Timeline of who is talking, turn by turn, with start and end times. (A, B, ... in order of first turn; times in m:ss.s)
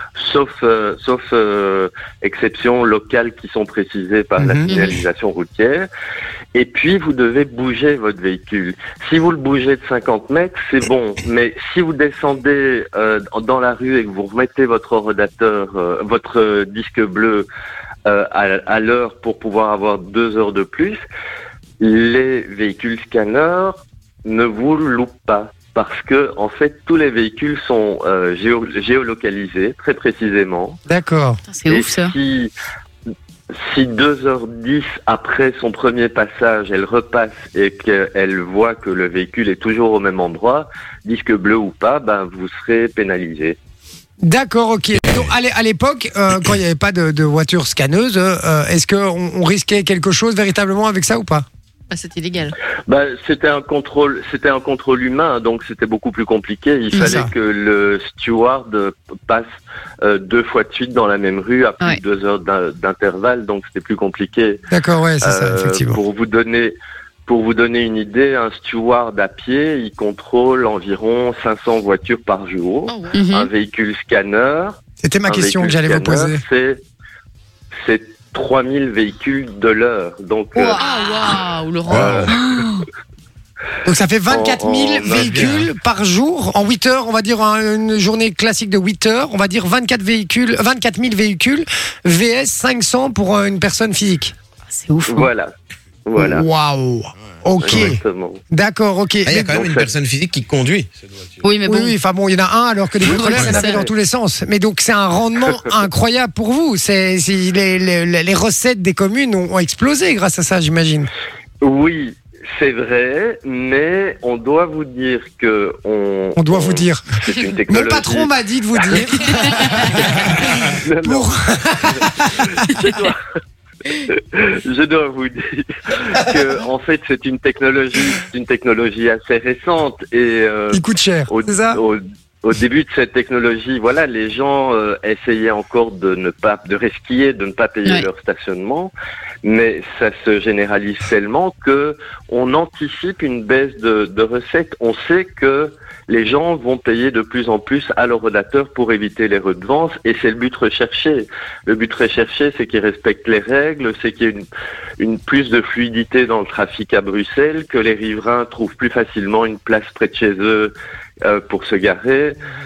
0:00.2-0:05.9 A
0:04.4-0:04.7 B
0:04.7-0:04.9 C
0:06.5-0:17.5 A
0:18.0-0:21.0 A
0:21.8-0:30.8 A
0:30.9-0:31.4 B
0:31.5-0:32.1 C
0:31.7-0:32.5 A
0:33.5-0:43.6 A
0:44.2-0:51.4 B
0:51.9-0:52.6 D
0:52.9-0:59.5 A
0:56.9-0:57.2 C
0:57.0-0:57.3 B
1:00.0-1:04.6 A
1:04.7-1:06.0 B
1:05.2-1:16.8 A
1:12.9-1:13.2 D
1:13.1-1:13.5 C
1:15.0-1:16.4 B
1:17.8-1:20.8 A
1:20.6-1:21.3 C
1:20.6-1:22.3 D
1:21.9-1:22.3 E
1:21.9-1:22.5 A
1:22.4-1:22.8 C
1:23.8-1:34.3 B
1:24.3-1:25.6 A
1:25.2-1:25.7 E
1:34.8-1:35.3 C
1:35.1-1:35.5 A
1:36.0-1:36.4 A
1:36.2-1:38.0 B
1:37.6-1:38.4 A
1:37.6-1:37.9 E
1:38.5-1:39.6 B
1:39.2-1:41.3 E
1:39.5-1:39.9 A
1:41.4-1:42.0 C
1:41.6-1:51.1 B
1:43.1-1:43.8 C
1:43.2-1:43.6 E
1:51.6-2:03.2 A
1:56.4-1:57.1 B
1:57.7-2:02.8 B
2:04.1-2:18.9 A
2:10.7-2:11.8 B
2:19.4-2:34.4 A
2:35.0-2:42.4 A